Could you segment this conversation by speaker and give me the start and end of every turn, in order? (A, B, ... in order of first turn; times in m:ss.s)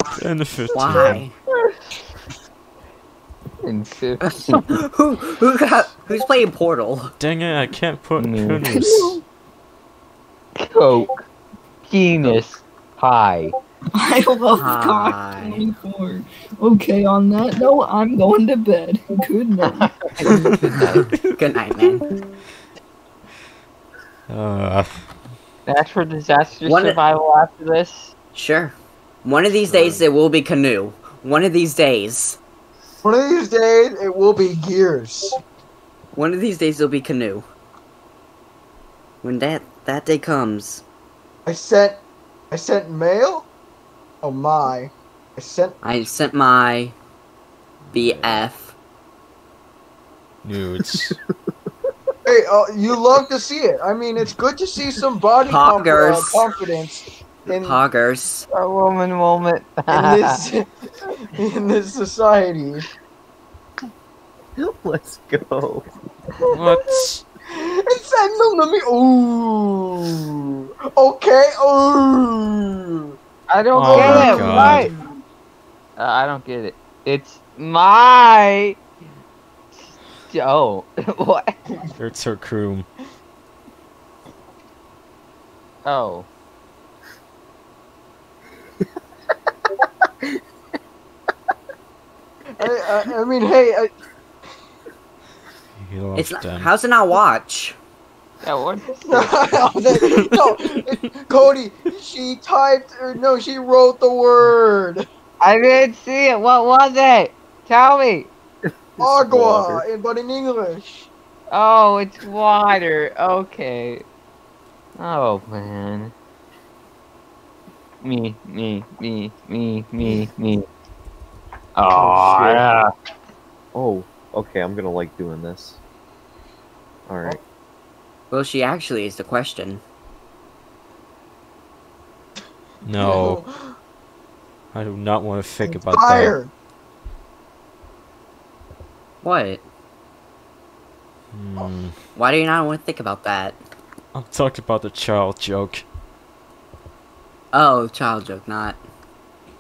0:00.2-0:01.2 A
0:00.7-0:01.3 B
0:03.6-0:04.6 C
0:04.2-0:07.2 B
0:07.2-0:09.2 A
0:08.2-0:08.7 C
0:08.7-0:09.2 D
0:10.6-0:11.2 C
0:11.9-0:13.6 C
0:14.0-0:19.9 D
0:14.5-0:15.6 B
0:19.6-0:21.1 C
0:21.4-0:22.1 B
0:24.3-0:25.0 A
0:25.7-0:28.1 C
0:26.6-0:27.0 B
0:28.4-0:32.4 B
0:29.6-0:30.0 A
0:33.0-0:35.3 E
0:36.2-0:37.4 B
0:39.2-0:40.8 B
0:41.5-0:43.5 E
0:44.2-0:45.8 E
0:45.8-0:47.0 B
0:47.9-0:48.4 A
0:47.9-0:48.7 B
0:50.4-0:51.2 A
0:50.8-0:51.4 F
0:52.2-0:57.8 E
0:55.5-0:56.4 B
0:57.6-0:58.5 B
0:58.5-1:00.4 C
0:59.9-1:00.7 E
1:01.2-1:02.9 E
1:04.6-1:05.9 F
1:06.5-1:07.2 A
1:07.5-1:13.1 E
1:13.5-1:14.9 C
1:13.7-1:14.9 A
1:13.9-1:15.0 E
1:13.9-1:14.8 B
1:16.0-1:18.8 C
1:19.7-1:21.6 C
1:22.0-1:22.9 A
1:25.8-1:26.3 C
1:32.6-1:33.9 E
1:35.8-1:36.7 A
1:36.2-1:37.8 B
1:38.4-1:39.6 C
1:39.1-1:45.1 E
1:40.0-1:40.5 A
1:45.4-1:48.3 C
1:48.7-1:49.8 F
1:49.0-1:51.1 E
1:51.5-1:54.0 C
1:55.0-1:56.1 C
1:58.0-2:00.6 C
2:01.8-2:02.9 C
2:01.8-2:02.7 A
2:03.7-2:05.8 F
2:07.1-2:07.4 F
2:08.3-2:09.8 B
2:12.8-2:13.4 A
2:12.9-2:13.8 E
2:14.7-2:16.4 A
2:15.6-2:16.5 E
2:19.2-2:19.6 B
2:21.3-2:22.0 A
2:22.2-2:23.6 B
2:24.1-2:25.8 A
2:27.5-2:28.8 B